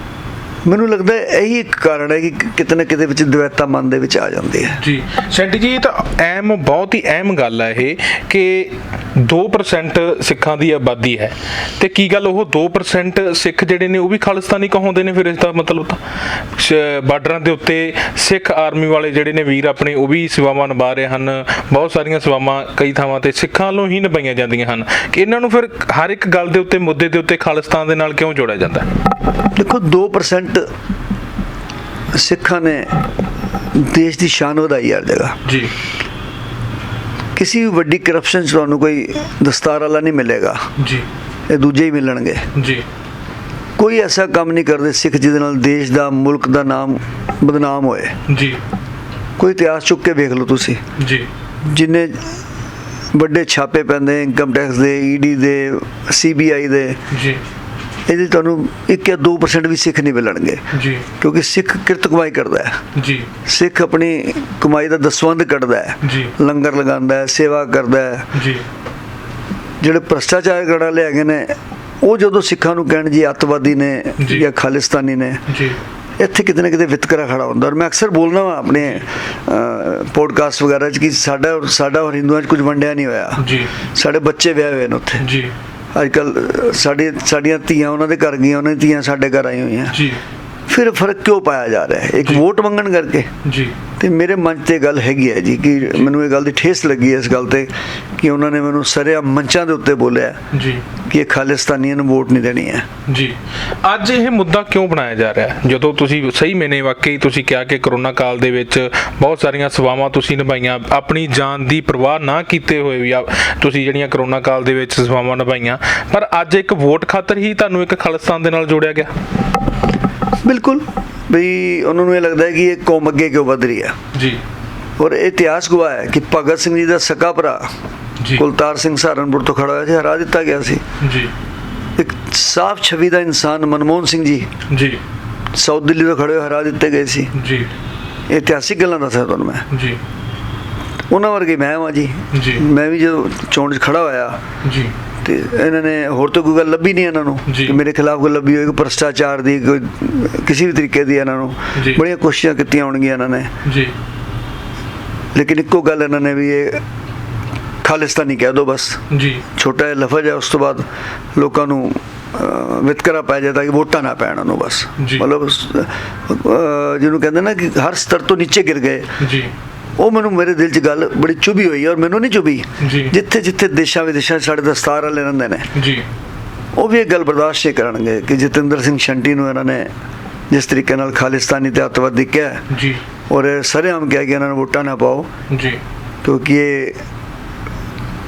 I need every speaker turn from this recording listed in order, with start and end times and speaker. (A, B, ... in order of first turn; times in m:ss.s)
0:00.6-0:04.8 A
0:04.7-0:16.0 B
0:16.5-0:28.9 B
0:29.5-0:30.7 A
0:32.1-0:32.9 A
0:33.7-0:35.4 A
0:35.4-0:35.7 B
0:37.4-0:40.7 A
0:40.8-0:41.1 B
0:41.5-0:42.5 A
0:42.5-0:42.8 B
0:43.8-0:48.2 A
0:48.3-0:48.6 B
0:49.4-0:50.8 A
0:51.0-0:51.3 B
0:51.6-0:52.4 A
0:53.1-0:57.0 A
0:57.1-0:57.4 B
0:58.1-1:00.6 A
1:00.7-1:01.1 B
1:01.2-1:02.8 A
1:02.9-1:03.3 B
1:03.4-1:08.3 A
1:06.0-1:06.3 B
1:08.3-1:08.6 B
1:09.8-1:15.4 A
1:14.2-1:14.4 B
1:15.5-1:15.8 B
1:16.2-1:25.3 A
1:23.4-1:23.7 B
1:25.2-1:25.5 B
1:25.9-1:30.0 A
1:29.9-1:30.2 B
1:30.7-1:33.3 A
1:33.4-1:33.7 B
1:34.0-1:40.4 A
1:40.5-1:40.8 B
1:41.0-1:42.9 A
1:43.0-1:59.1 B
2:00.4-2:04.0 A
2:04.1-2:04.4 B
2:05.0-2:07.7 A
2:08.3-2:10.8 A
2:11.0-2:11.3 B
2:12.0-2:14.5 A
2:14.7-2:15.0 B
2:15.5-2:17.3 A
2:17.3-2:17.7 B
2:18.3-2:19.7 A
2:19.7-2:20.0 B
2:21.1-2:24.4 A
2:22.3-2:22.6 B
2:24.6-2:24.9 B
2:25.2-2:33.5 A
2:27.5-2:27.8 B
2:31.7-2:32.0 B
2:33.6-2:33.9 B
2:35.3-2:36.8 A
2:37.8-2:49.1 A
2:39.1-2:39.4 B
2:45.0-2:45.2 B
2:49.2-2:49.5 B
2:50.0-2:55.7 A
2:52.8-2:53.1 B
2:55.7-2:56.1 B
2:56.7-2:59.9 A
3:00.5-3:02.6 A
3:02.7-3:03.0 B
3:03.3-3:05.3 A
3:05.5-3:05.8 B
3:06.2-3:07.0 A